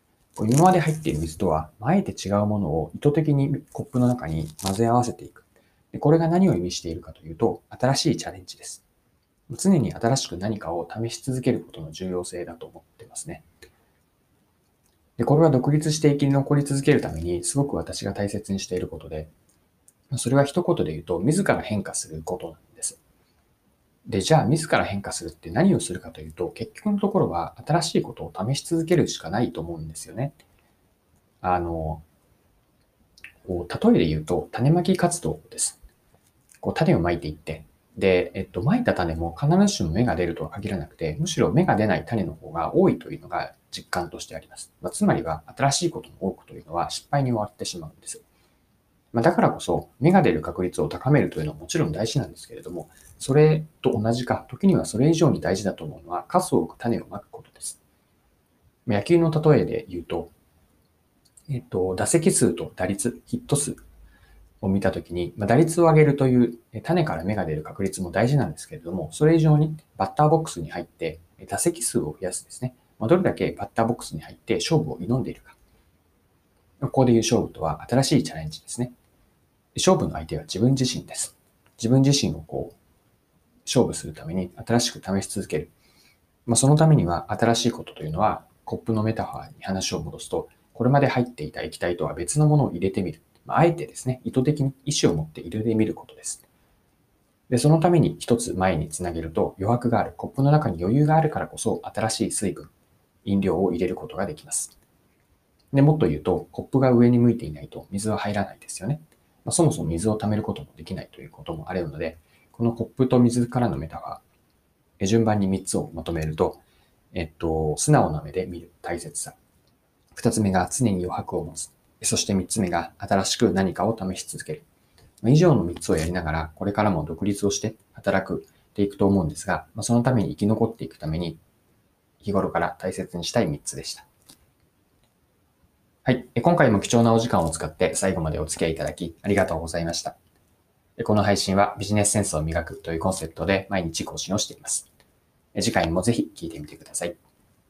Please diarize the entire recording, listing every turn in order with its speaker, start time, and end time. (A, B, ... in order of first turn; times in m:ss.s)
0:00.4-0:08.8 A
0:09.5-0:13.4 A
0:15.2-0:19.3 A
0:20.1-0:23.0 A
0:24.1-0:30.4 A
0:31.4-0:32.0 A
0:33.4-0:35.8 A
0:36.6-0:48.2 A
0:49.1-0:57.8 A
0:58.9-1:00.3 A
1:01.5-1:03.8 A
1:04.6-1:15.6 A
1:16.8-1:18.9 A
1:19.8-1:22.8 A
1:23.7-1:25.7 A
1:26.5-1:36.4 A
1:37.5-1:42.7 A
1:43.2-1:44.8 A
1:45.7-1:54.2 A
1:55.0-1:56.6 A
1:57.1-1:59.4 A
2:00.1-2:04.6 A
2:05.2-2:11.4 A
2:12.2-2:14.1 A
2:16.0-2:20.2 A
2:21.0-2:24.9 A
2:25.6-2:27.2 A